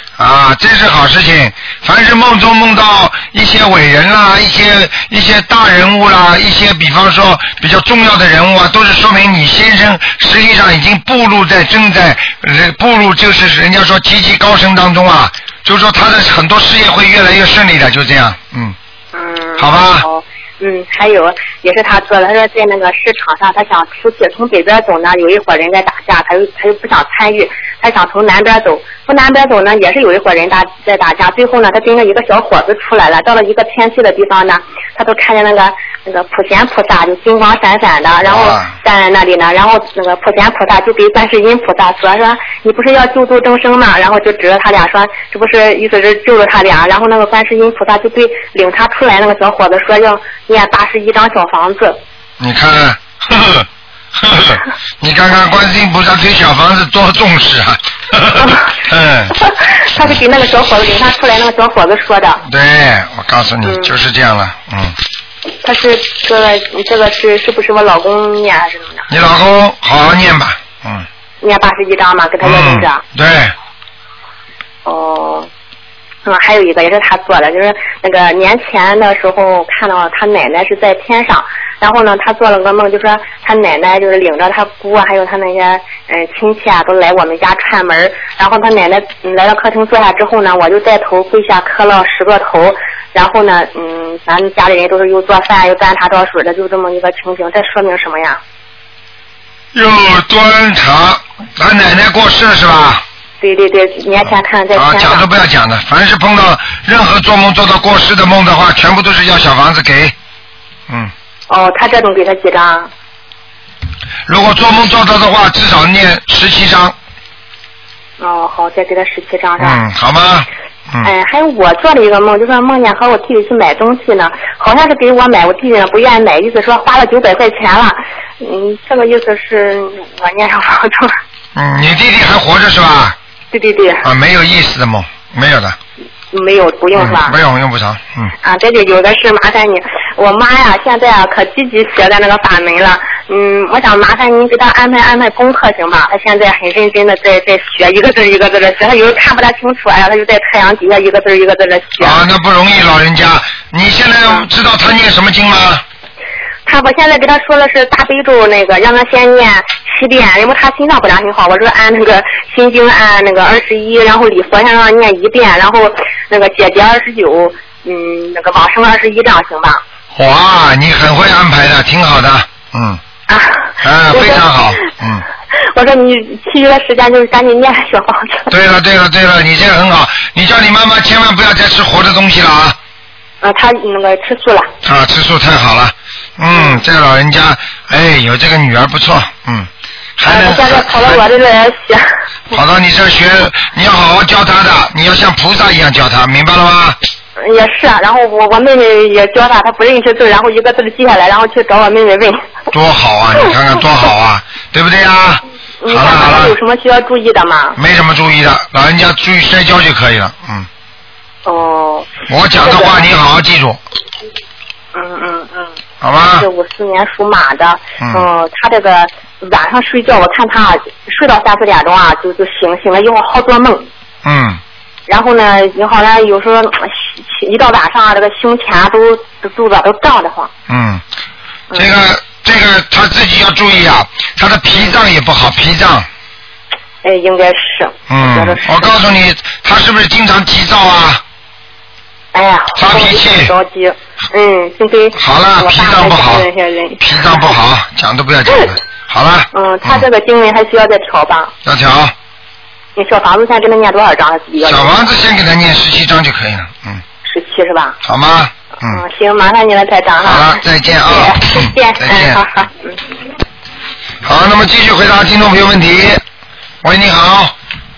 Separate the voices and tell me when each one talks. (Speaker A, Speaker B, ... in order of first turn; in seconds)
Speaker A: 0.2-18.8, 19.6-20.0, 38.2-38.7, 52.4-59.3, 62.4-65.0, 69.1-71.1, 72.4-73.5, 99.7-103.0, 104.7-110.1, 114.3-116.9, 119.6-121.1, 131.5-133.2, 134.0-135.8, 136.9-138.3, 152.0-155.8, 170.1-173.0, 173.8-175.2, 178.5-182.8, 184.8-191.2, 192.5-197.0, 202.7-206.5, 207.8-210.7, 212.3-213.8, 216.0-216.5, 224.2-224.6, 230.7-231.0, 231.7-236.1, 238.1-241.2, 242.7-243.5, 245.2-246.5, 247.0-250.1, 251.6-252.1, 254.6-257.0, 258.0-259.0, 260.2-262.4, 264.2-266.2, 266.8-267.5
Speaker B: 19.1-52.0, 58.4-58.6, 59.4-62.4, 63.6-63.9, 65.6-69.0, 71.4-73.0, 74.8-75.5, 76.2-98.4, 103.4-105.2, 111.5-112.9, 118.2-119.8, 121.0-131.1, 133.5-134.1, 136.3-137.3, 138.4-152.2, 156.7-169.8, 173.3-174.5, 175.5-178.5, 183.4-184.7, 186.5-186.8, 190.2-192.1, 197.4-202.4, 205.8-207.8, 211.4-213.0, 214.9-215.7, 216.4-223.9, 225.1-230.5, 237.0-238.9, 242.3-247.6, 249.5-251.5, 252.9-255.1, 257.2-257.9, 258.8-263.0